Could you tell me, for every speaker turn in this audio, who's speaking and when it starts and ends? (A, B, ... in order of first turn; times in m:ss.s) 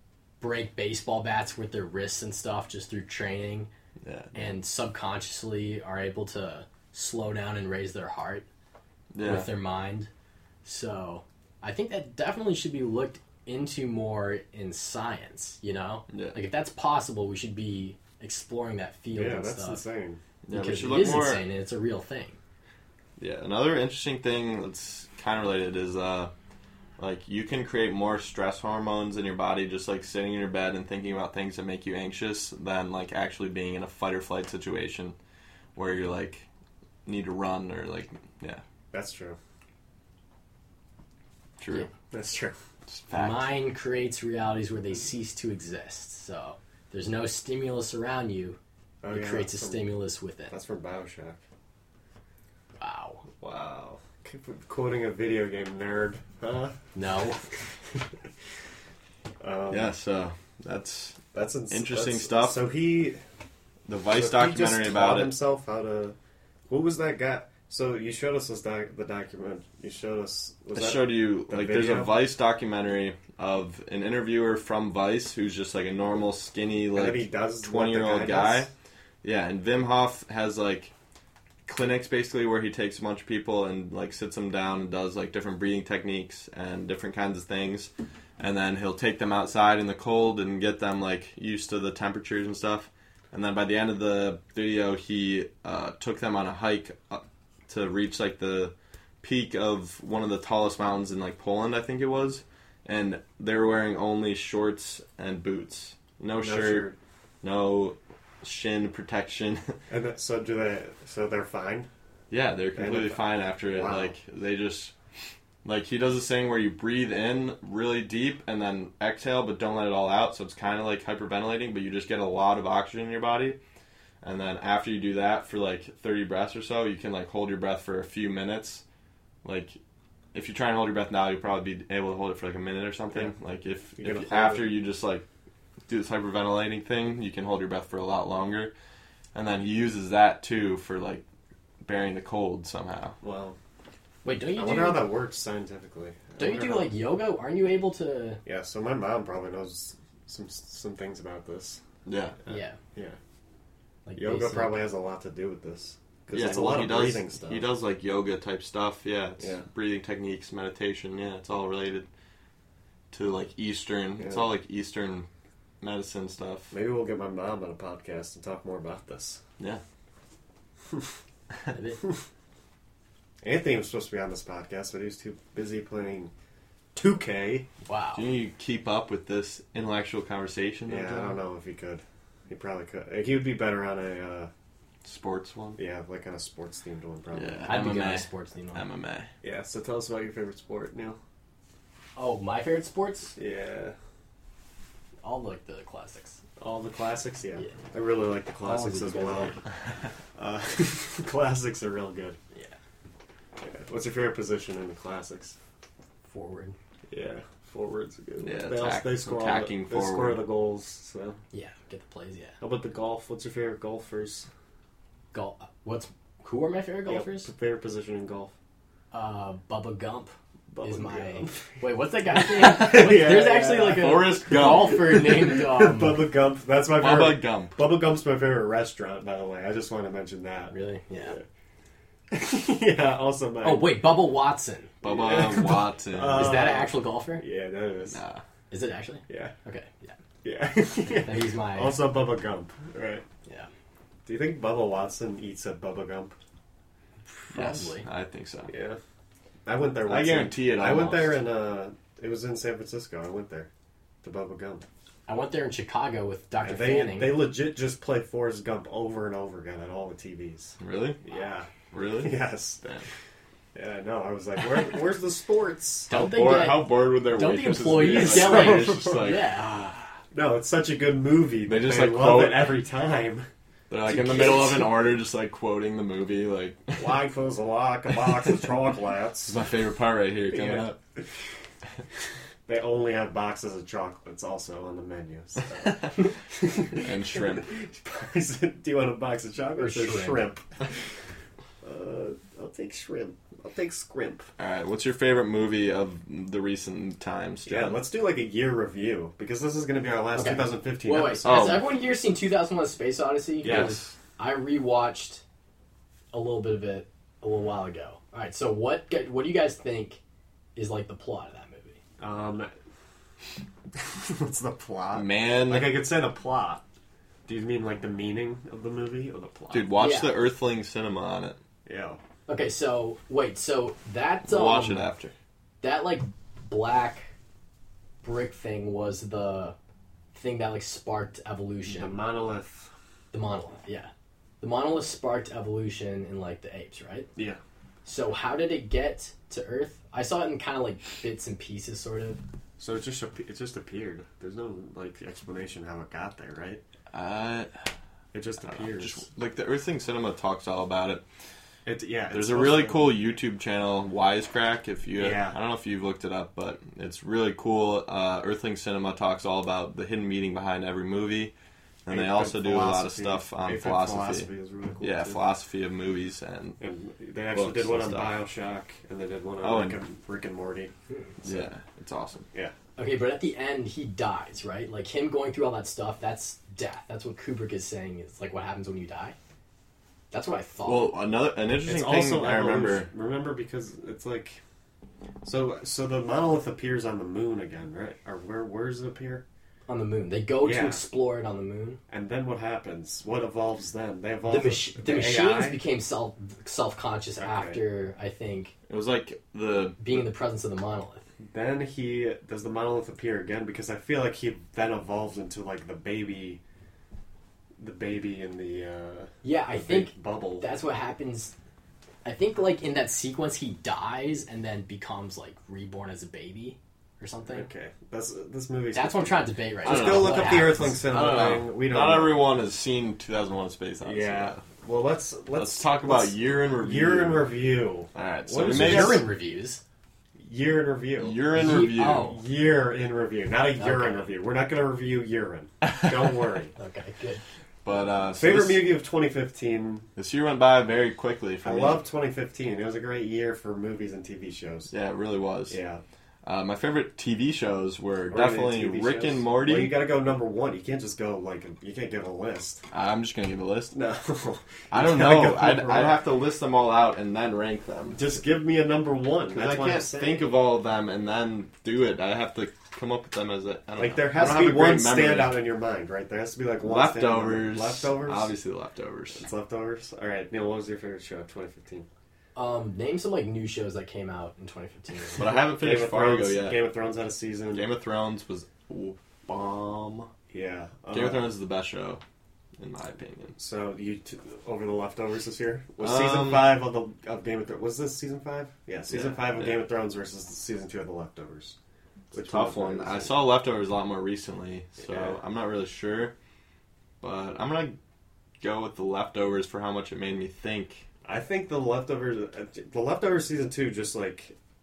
0:00.4-0:03.7 A
0:04.0-0:04.6 B
0:04.3-0:08.5 A
0:09.1-0:09.5 B
0:09.2-0:10.1 A
0:10.6-0:19.8 A
0:16.1-0:16.4 B
0:19.1-0:20.2 C
0:20.4-0:21.4 B
0:20.5-0:22.4 A
0:23.2-0:26.3 B
0:27.0-0:35.2 B
0:35.8-0:36.5 B
0:37.1-0:38.6 B
0:38.9-0:39.4 C
0:41.6-0:41.9 B
0:42.1-0:42.6 C
0:42.9-0:43.5 B
0:43.1-0:48.6 A
0:49.0-0:49.9 C
0:49.1-0:50.5 A
0:50.5-0:51.4 C
0:52.8-0:53.2 A
0:53.4-0:56.8 C
0:57.0-0:57.4 A
0:59.4-0:59.9 C
0:59.7-1:02.6 B
1:01.3-1:03.2 C
1:03.9-1:05.4 B
1:04.1-1:06.2 C
1:06.7-1:12.2 C
1:10.7-1:18.7 B
1:16.9-1:18.7 C
1:19.2-1:20.9 B
1:21.7-1:46.9 B
1:46.4-1:47.0 C
1:47.4-1:49.8 B
1:49.9-1:51.9 C
1:52.3-1:54.9 B
1:52.8-1:54.1 C
1:55.6-2:03.6 B
2:04.2-2:08.8 B
2:09.4-2:09.8 B
2:10.3-2:15.2 B
2:14.0-2:14.7 C
2:15.9-2:18.7 B
2:19.3-2:21.2 B
2:21.8-2:23.2 B
2:23.2-2:23.6 C
2:24.2-2:25.1 A
2:24.5-2:26.9 C
2:26.4-2:28.4 A
2:28.4-2:31.8 C
2:32.1-2:32.4 B
2:32.5-2:32.8 A
2:32.5-2:33.2 C
2:34.1-2:34.8 A
2:34.2-2:37.7 C
2:36.3-2:42.1 B
2:39.4-2:39.6 C
2:43.1-2:45.3 B
2:44.2-2:44.5 C
2:45.8-2:46.7 B
2:46.7-2:49.4 C
2:51.7-2:52.0 A
2:53.4-2:56.3 C
2:56.9-2:57.7 C
2:57.9-2:58.3 A
2:58.2-3:01.4 B
3:00.9-3:04.5 C
3:05.0-3:05.8 B
3:05.8-3:07.8 C
3:07.3-3:09.3 B
3:07.6-3:08.8 A
3:09.4-3:11.2 C
3:12.2-3:13.4 A
3:13.4-3:14.0 C
3:15.2-3:16.4 A
3:16.6-3:19.6 C
3:18.6-3:19.6 A
3:20.4-3:22.4 C
3:23.6-3:25.6 C
3:26.3-3:26.8 A
3:27.1-3:31.4 C
3:28.4-3:30.4 B
3:31.5-3:32.6 A
3:32.6-3:34.5 C
3:35.3-3:37.5 A
3:37.1-3:38.5 C
3:39.1-3:46.2 A
3:40.7-3:41.9 C
3:42.6-3:51.4 C
3:42.6-3:43.2 B
3:43.9-3:45.4 B
3:47.0-3:47.8 B
3:50.7-3:51.4 A
3:52.3-3:54.1 C
3:53.6-3:54.9 A
3:55.0-3:56.6 B
3:55.0-3:58.2 C
3:56.3-3:57.4 A
3:58.1-3:58.4 B
3:58.7-4:00.2 A
3:59.3-3:59.5 C
4:00.4-4:03.2 C
4:01.1-4:02.0 A
4:04.3-4:06.4 C
4:07.3-4:08.1 A
4:07.5-4:08.7 B
4:08.7-4:09.0 C
4:09.6-4:13.7 C
4:10.1-4:11.4 B
4:14.2-4:14.8 C
4:15.3-4:17.4 A
4:16.6-4:22.8 C
4:20.8-4:21.2 B
4:21.9-4:23.1 B
4:23.7-4:26.1 C
4:26.1-4:29.5 B
4:26.1-4:30.1 A
4:28.1-4:29.3 C
4:30.3-4:33.5 C
4:31.7-4:32.8 B
4:33.9-4:37.2 B
4:34.1-4:34.9 C
4:37.0-4:39.6 C
4:39.5-4:41.0 B
4:40.5-4:41.3 C
4:42.7-4:50.9 C
4:45.7-4:46.1 B
4:46.9-4:47.7 B
4:49.8-4:50.5 A
4:51.8-4:54.5 C
4:54.6-4:58.0 B
4:57.7-5:01.8 C
5:00.4-5:05.4 A
5:01.4-5:01.9 B
5:03.6-5:04.1 B
5:03.6-5:04.0 C
5:06.3-5:10.2 A
5:10.8-5:12.0 A
5:12.2-5:12.7 C
5:14.0-5:16.8 C
5:15.1-5:16.0 B
5:17.5-5:19.9 C
5:19.7-5:21.6 B
5:20.0-5:20.4 A
5:21.8-5:22.2 C
5:22.5-5:25.1 A
5:24.5-5:25.3 B
5:25.8-5:27.3 A
5:28.2-5:29.8 A
5:30.3-5:32.2 A
5:31.9-5:32.9 C
5:33.3-5:34.1 A
5:34.6-5:37.3 A
5:38.0-5:42.4 A
5:42.8-5:46.8 C
5:47.1-5:47.7 B
5:48.3-5:49.2 C
5:48.7-5:51.2 B
5:51.8-5:53.1 C
5:52.3-6:01.5 B
5:55.2-5:55.6 C
6:02.0-6:04.5 B
6:02.1-6:05.4 C
6:05.0-6:06.8 B
6:06.8-6:10.9 C
6:07.5-6:08.4 B
6:09.6-6:10.0 B
6:11.1-6:11.3 A
6:11.4-6:12.5 B
6:13.0-6:19.4 A
6:20.3-6:21.2 A
6:20.8-6:23.1 B
6:21.8-6:24.6 C
6:25.4-6:29.4 C
6:29.9-6:32.0 A
6:30.6-6:31.0 C
6:32.1-6:35.8 C
6:34.5-6:38.7 A
6:37.4-6:37.8 C
6:38.9-6:40.0 B
6:40.0-6:41.2 A
6:41.4-6:46.6 C
6:47.8-6:50.7 C
6:49.4-6:51.5 A
6:52.2-6:57.7 A
6:57.5-7:02.4 C
6:58.9-7:01.0 A
6:59.8-7:04.6 B
7:04.0-7:09.3 C
7:05.6-7:07.6 B
7:08.1-7:09.3 B
7:08.6-7:09.8 A
7:10.4-7:16.7 C
7:11.2-7:12.3 B
7:11.6-7:12.4 A
7:13.8-7:14.3 A
7:16.8-7:17.4 A
7:17.8-7:18.9 B
7:18.4-7:20.1 C
7:20.2-7:22.1 B
7:21.6-7:24.9 C
7:24.9-7:25.8 B
7:25.7-7:26.0 C
7:26.4-7:30.0 B
7:28.3-7:32.8 C
7:32.9-7:33.9 B
7:33.9-7:36.2 C
7:34.9-7:38.3 B
7:38.1-7:40.5 C
7:39.5-7:45.6 B
7:44.0-7:48.5 C
7:46.8-7:49.5 B
7:49.4-7:52.1 C
7:52.6-7:55.4 A
7:55.4-7:56.8 B
7:55.5-7:57.9 C
7:57.7-8:00.3 B
8:00.5-8:01.5 C
8:01.1-8:02.2 B
8:02.8-8:03.6 B
8:03.6-8:11.8 C
8:06.0-8:06.8 B
8:09.1-8:09.8 B
8:12.3-8:13.4 C
8:12.3-8:16.3 B
8:15.0-8:15.4 C
8:17.2-8:18.0 B
8:18.6-8:21.0 B
8:21.2-8:24.6 C